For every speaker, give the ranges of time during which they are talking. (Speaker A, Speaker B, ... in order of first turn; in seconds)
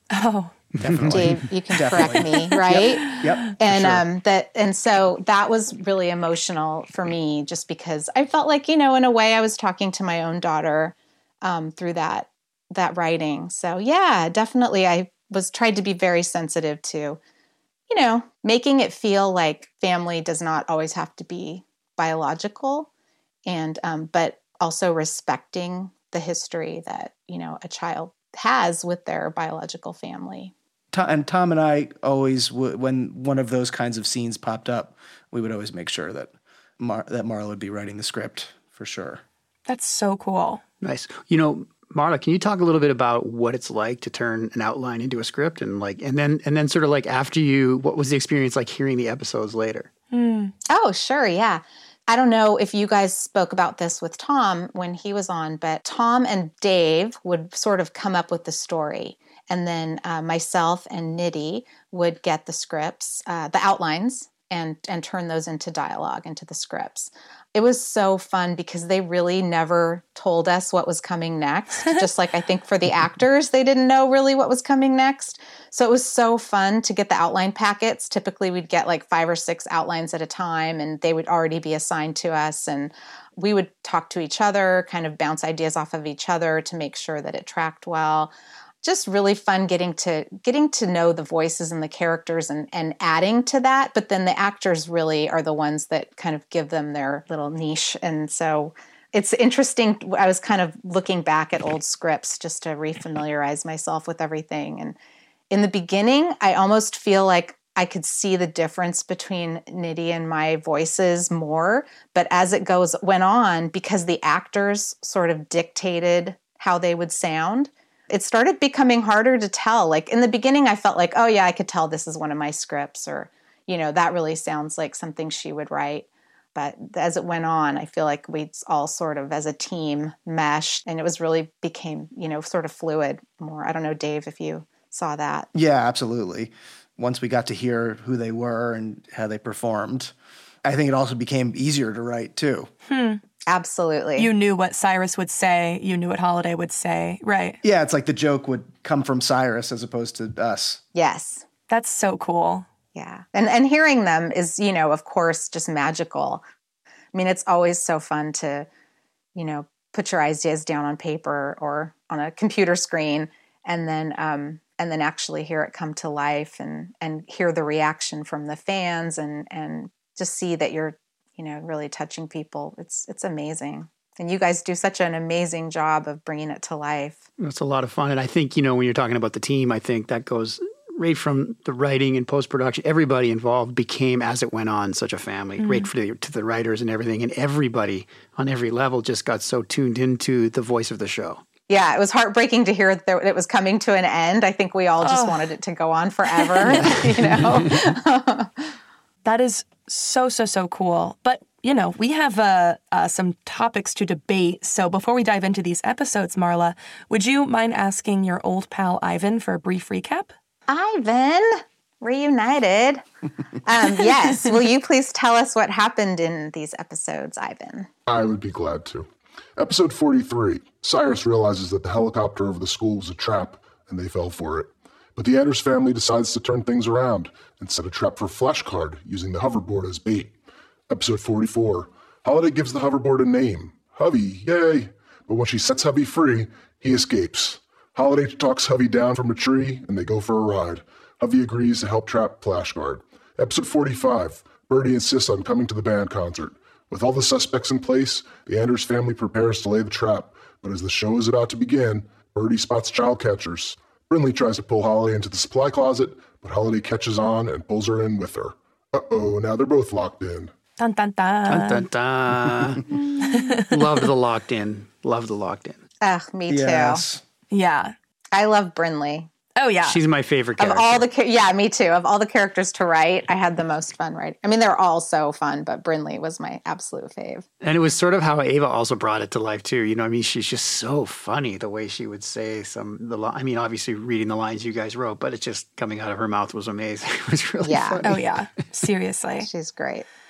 Speaker A: 0.1-0.5, 39.7-40.6, 50.1-50.5, 142.9-143.2, 144.2-147.6, 151.7-152.7, 185.6-185.9, 195.0-195.5, 196.4-197.1, 199.2-210.3, 260.8-261.9, 263.2-263.7, 267.5-267.9, 269.6-270.0, 288.0-289.5
Speaker B: 0.7-1.3, 40.8-49.9, 177.4-191.4, 261.5-262.9, 263.5-265.8, 269.8-271.1, 277.6-288.2
Speaker C: 0.8-4.0, 30.9-39.2, 135.5-140.1, 140.6-142.7, 147.6-150.8, 266.5-267.2
Speaker D: 1.1-17.2, 17.9-22.9, 23.4-30.5, 50.7-88.3, 88.8-105.0, 105.5-135.5, 143.5-144.3, 150.9-151.4, 152.9-156.4, 157.1-158.7, 159.3-177.2, 191.7-198.5, 210.7-213.0, 213.6-217.9, 266.0-267.0, 268.3-269.3, 270.6-277.4, 287.6-288.1, 289.4-290.1
Speaker E: 218.1-230.3, 230.9-260.5